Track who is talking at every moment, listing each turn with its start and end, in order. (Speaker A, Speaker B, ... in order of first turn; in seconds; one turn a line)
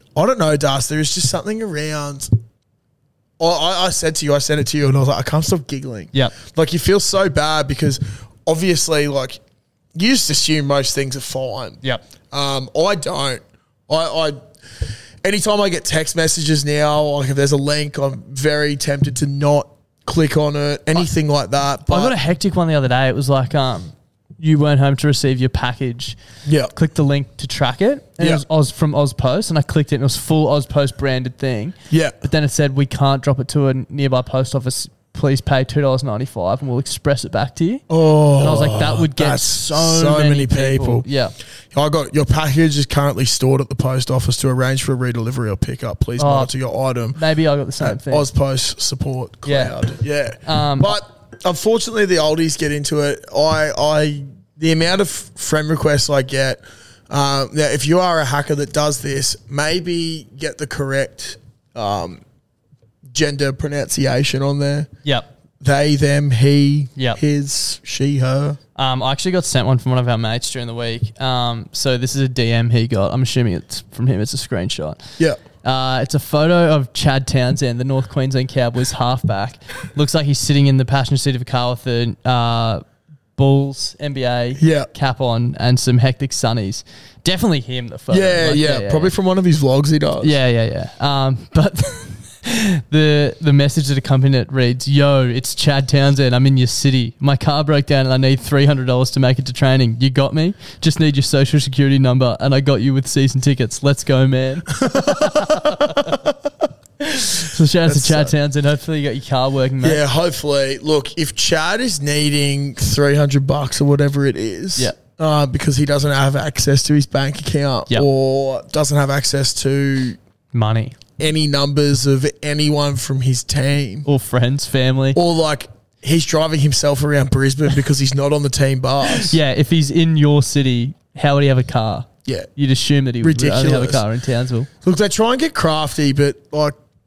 Speaker A: 0.1-2.3
Speaker A: 3.4-9.4
Speaker A: 9.9-11.8
Speaker A: 12.3-22.1
Speaker B: 21.9-26.2
Speaker A: 26.4-26.7
Speaker B: 26.7-37.9
Speaker A: 28.2-28.4
Speaker A: 31.9-32.2
Speaker A: 37.9-41.1
Speaker B: 38.4-41.3
Speaker A: 41.7-47.2
Speaker B: 46.2-46.5
Speaker B: 47.1-48.3
Speaker A: 47.8-62.2
Speaker B: 49.5-49.8
Speaker B: 50.4-51.0
Speaker A: 63.1-64.9
Speaker A: 65.6-68.6
Speaker B: 68.8-75.0
Speaker B: 75.6-82.8
Speaker B: 83.4-89.1
Speaker A: 84.6-84.9
Speaker A: 88.1-90.4
Speaker B: 90.2-106.2
Speaker A: 104.8-106.3
Speaker B: 107.0-110.0
Speaker A: 107.9-108.3
Speaker A: 109.8-120.2
Speaker B: 120.5-121.0
Speaker A: 121.2-124.1
Speaker B: 124.0-125.2
Speaker A: 125.2-129.4
Speaker B: 129.1-134.7
Speaker A: 133.2-134.1
Speaker A: 134.8-136.8